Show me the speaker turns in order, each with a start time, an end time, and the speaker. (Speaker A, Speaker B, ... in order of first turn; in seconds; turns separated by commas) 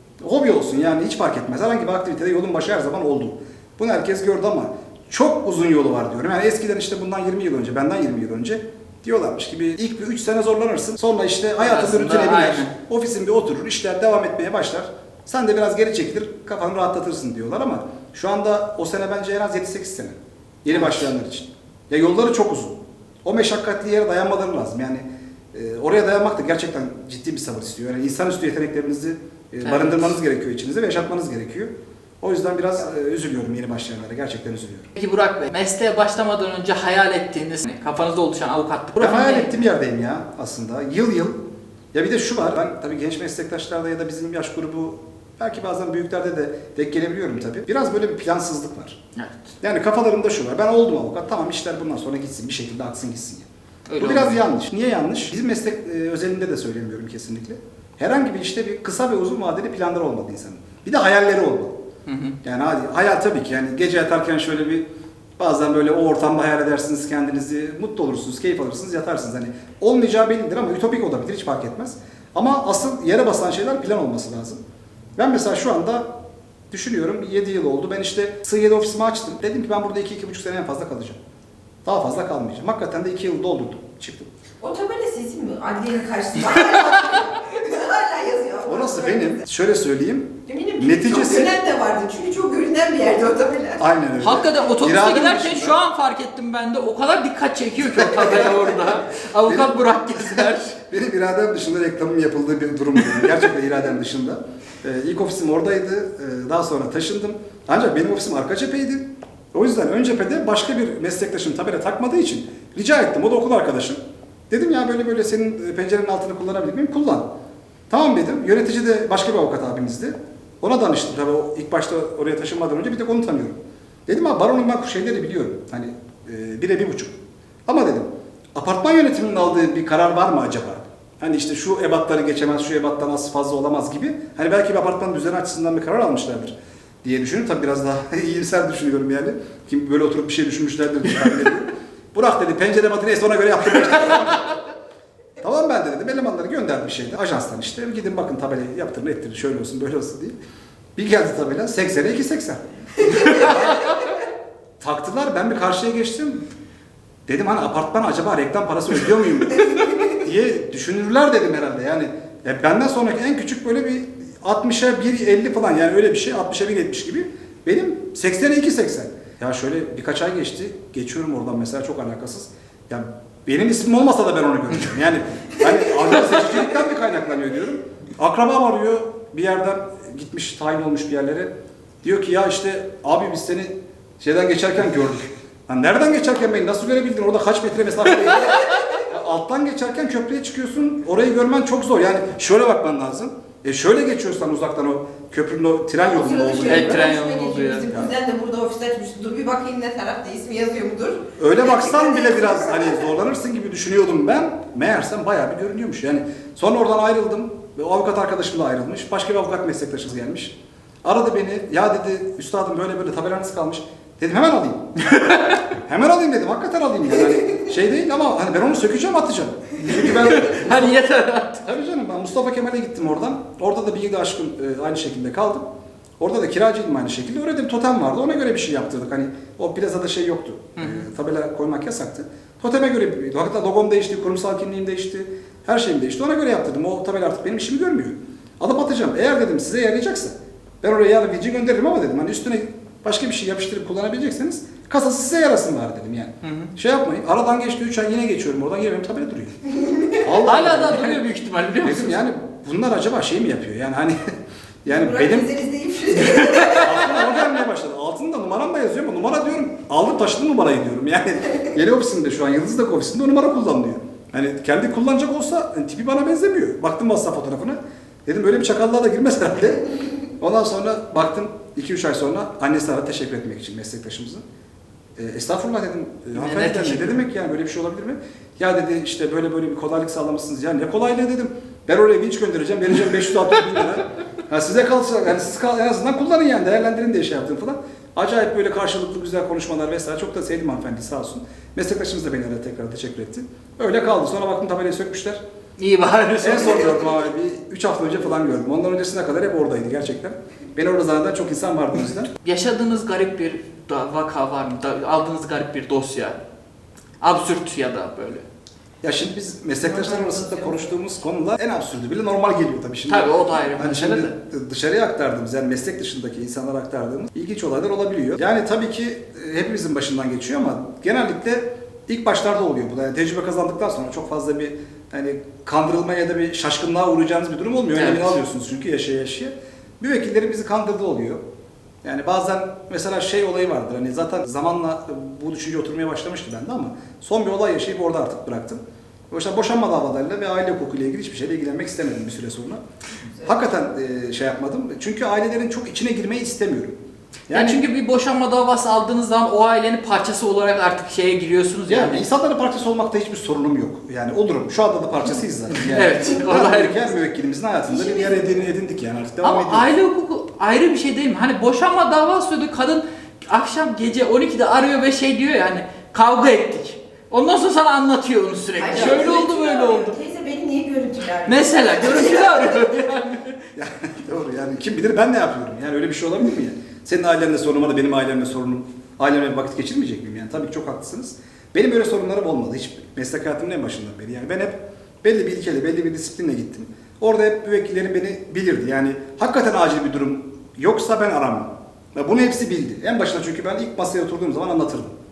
Speaker A: 0.2-34.9, Speaker B: 11.6-12.7, Speaker B: 29.6-30.1, Speaker B: 35.0-39.6, Speaker A: 39.0-41.4, Speaker A: 41.9-49.0, Speaker B: 49.2-49.4, Speaker A: 49.6-53.5, Speaker B: 53.9-54.4, Speaker A: 54.0-61.8, Speaker B: 62.1-62.4, Speaker A: 62.4-64.9, Speaker A: 65.4-74.6, Speaker A: 75.2-76.1, Speaker A: 76.7-81.2, Speaker A: 81.8-84.3, Speaker C: 84.6-89.4, Speaker A: 88.7-91.5, Speaker C: 90.5-93.8, Speaker A: 93.8-95.8, Speaker B: 94.2-100.8, Speaker A: 97.8-98.7, Speaker A: 99.4-117.3, Speaker A: 117.9-144.6, Speaker A: 145.4-150.4, Speaker A: 151.0-153.9, Speaker A: 154.8-156.5, Speaker A: 157.3-181.5, Speaker A: 182.0-197.1, Speaker C: 196.0-202.9, Speaker B: 196.7-197.8, Speaker A: 201.4-215.1, Speaker B: 215.1-215.6, Speaker A: 215.6-221.0, Speaker B: 220.0-221.7, Speaker A: 221.6-225.7, Speaker A: 226.2-251.2, Speaker B: 230.8-231.0, Speaker B: 246.4-246.7, Speaker C: 249.8-250.2, Speaker B: 250.4-252.2, Speaker A: 251.8-255.5, Speaker C: 254.8-257.1, Speaker B: 256.4-256.9, Speaker A: 256.8-274.4, Speaker A: 275.1-295.4, Speaker B: 276.4-277.2, Speaker B: 295.8-297.0, Speaker A: 296.4-302.3, Speaker B: 302.4-306.4, Speaker B: 307.2-308.4, Speaker A: 309.0-331.4, Speaker C: 309.8-310.9, Speaker B: 313.1-314.3, Speaker B: 327.9-328.4, Speaker A: 332.0-342.8, Speaker A: 343.4-347.0, Speaker A: 347.5-347.8, Speaker B: 347.5-352.2, Speaker A: 351.9-359.9, Speaker B: 355.9-357.1, Speaker C: 357.9-358.5, Speaker B: 359.4-370.2, Speaker C: 368.8-372.7, Speaker B: 371.5-373.6, Speaker A: 373.8-395.1